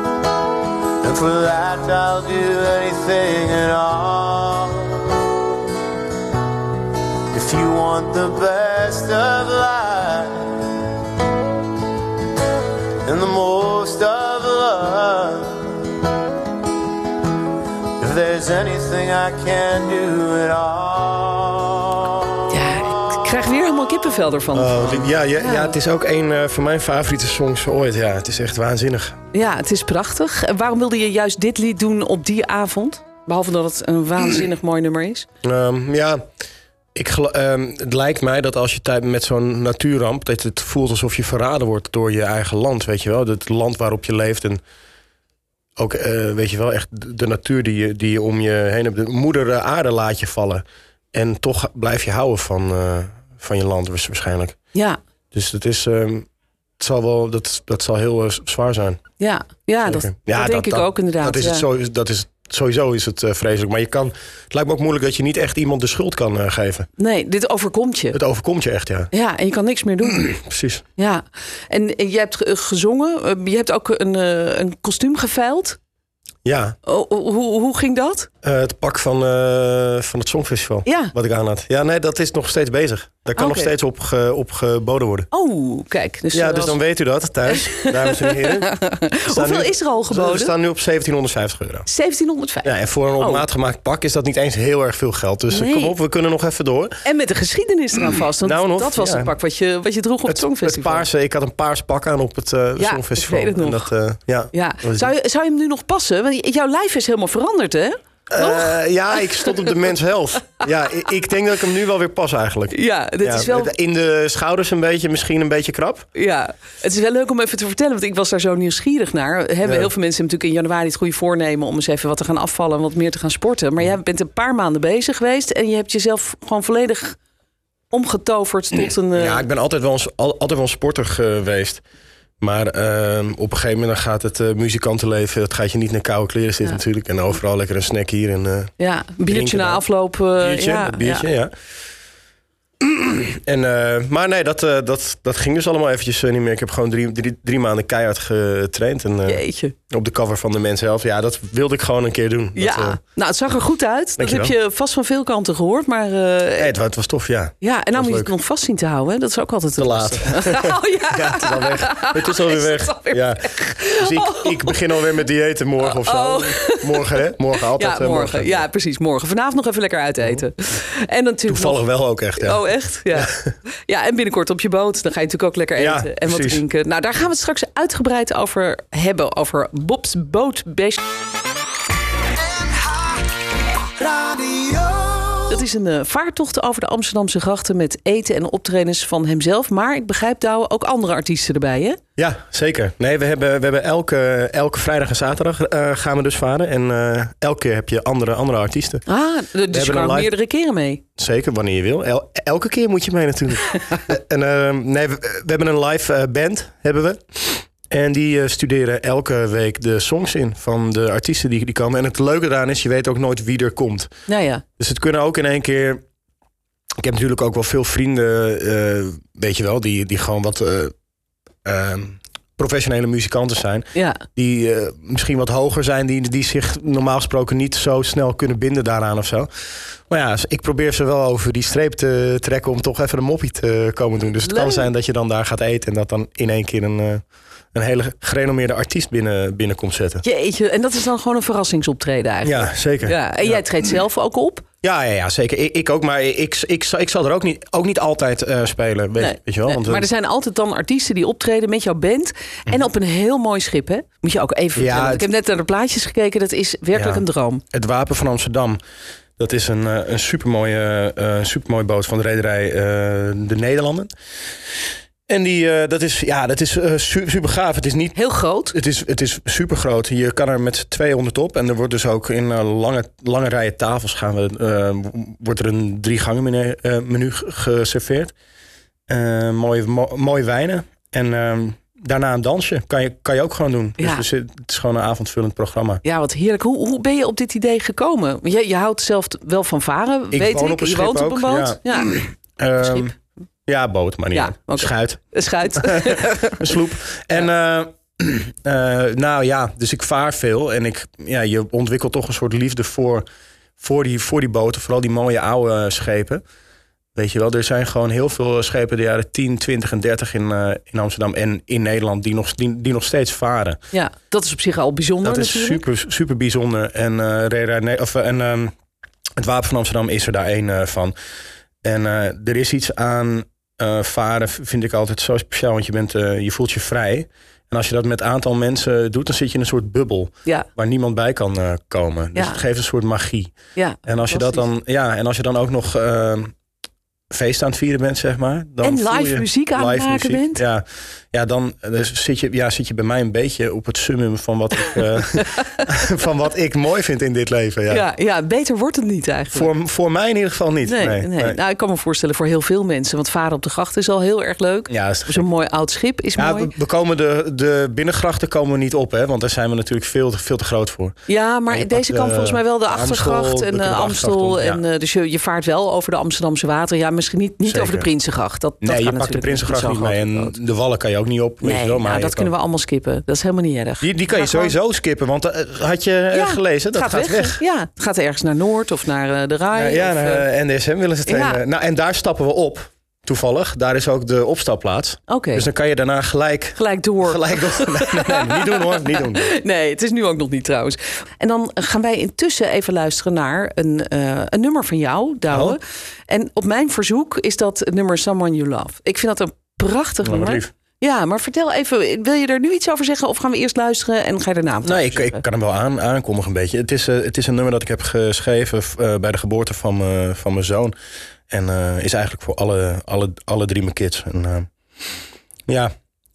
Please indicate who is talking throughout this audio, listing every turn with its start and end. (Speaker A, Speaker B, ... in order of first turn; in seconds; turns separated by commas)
Speaker A: 1.0-5.3, Speaker A: 7.3-10.8, Speaker A: 13.0-16.0, Speaker A: 18.0-22.4, Speaker B: 22.5-25.8, Speaker C: 24.5-29.2, Speaker B: 29.3-35.2, Speaker C: 35.4-36.2, Speaker C: 36.9-44.6, Speaker C: 45.8-54.5, Speaker C: 55.3-56.2, Speaker C: 56.8-59.0, Speaker B: 59.2-61.7, Speaker C: 59.8-66.9, Speaker B: 67.0-68.2, Speaker C: 68.1-69.1, Speaker B: 69.1-70.3, Speaker C: 70.2-70.8, Speaker B: 71.0-75.8, Speaker C: 76.4-76.8, Speaker B: 76.8-78.3, Speaker C: 78.4-85.3, Speaker B: 80.8-81.1, Speaker B: 83.4-83.7, Speaker B: 85.3-86.8, Speaker C: 86.3-88.8, Speaker B: 87.5-90.5, Speaker C: 89.2-91.9, Speaker B: 91.9-93.4, Speaker C: 92.6-97.0, Speaker B: 95.5-95.9, Speaker B: 97.0-101.1, Speaker C: 98.4-99.3, Speaker C: 100.2-105.1, Speaker B: 102.8-103.9, Speaker B: 104.5-109.8, Speaker C: 108.3-116.1, Speaker B: 112.7-113.7, Speaker B: 116.1-127.2, Speaker C: 119.6-119.9, Speaker B: 127.9-129.4, Speaker C: 129.1-131.8, Speaker C: 132.4-138.7, Speaker B: 138.8-141.3, Speaker C: 139.3-139.8, Speaker C: 140.3-141.5, Speaker C: 142.8-153.0, Speaker B: 149.2-149.8, Speaker B: 152.6-156.8, Speaker C: 154.2-154.6, Speaker C: 156.6-158.3, Speaker B: 157.6-165.0, Speaker C: 159.8-168.6, Speaker B: 165.8-181.0, Speaker C: 171.5-173.5, Speaker C: 175.8-176.6, Speaker A: 184.0-185.5, Speaker B: 185.5-192.0, Speaker C: 192.2-199.0, Speaker B: 199.1-201.0, Speaker C: 199.7-200.3, Speaker C: 201.2-214.1, Speaker B: 214.3-214.6, Speaker C: 214.8-216.0, Speaker C: 217.0-220.9, Speaker C: 221.6-229.5, Speaker B: 223.9-224.2, Speaker C: 230.1-237.2, Speaker B: 234.4-234.9, Speaker C: 237.7-240.2, Speaker B: 240.2-244.6, Speaker C: 242.4-243.7, Speaker C: 244.8-250.1, Speaker B: 249.2-257.6, Speaker C: 254.8-255.3, Speaker C: 256.9-258.8, Speaker C: 259.4-264.1, Speaker C: 265.3-268.2, Speaker B: 268.1-268.8, Speaker C: 268.7-278.3, Speaker C: 279.1-286.0, Speaker B: 284.0-284.3, Speaker B: 286.0-292.2, Speaker C: 290.3-293.1, Speaker B: 292.8-293.1, Speaker C: 293.7-303.2, Speaker B: 294.3-296.8, Speaker C: 303.8-306.4, Speaker C: 307.1-313.8, Speaker B: 313.9-315.8, Speaker C: 315.2-318.7, Speaker C: 319.4-321.1, Speaker C: 321.8-336.5, Speaker B: 332.3-332.6, Speaker B: 333.8-334.7, Speaker C: 337.3-348.0, Speaker B: 338.8-340.6, Speaker B: 345.5-345.8, Speaker B: 347.9-349.7, Speaker C: 349.5-351.6, Speaker B: 350.8-356.7, Speaker C: 354.9-355.5, Speaker C: 356.4-361.1, Speaker B: 361.3-370.6, Speaker C: 361.7-364.8, Speaker C: 367.6-368.1, Speaker C: 368.8-372.5, Speaker B: 371.6-374.8, Speaker C: 374.0-377.6, Speaker B: 376.3-380.5, Speaker C: 379.7-389.5, Speaker B: 381.2-381.6, Speaker B: 385.3-385.7, Speaker B: 386.8-405.4, Speaker C: 395.5-395.8, Speaker C: 400.2-400.7, Speaker C: 404.8-410.9, Speaker C: 411.5-414.7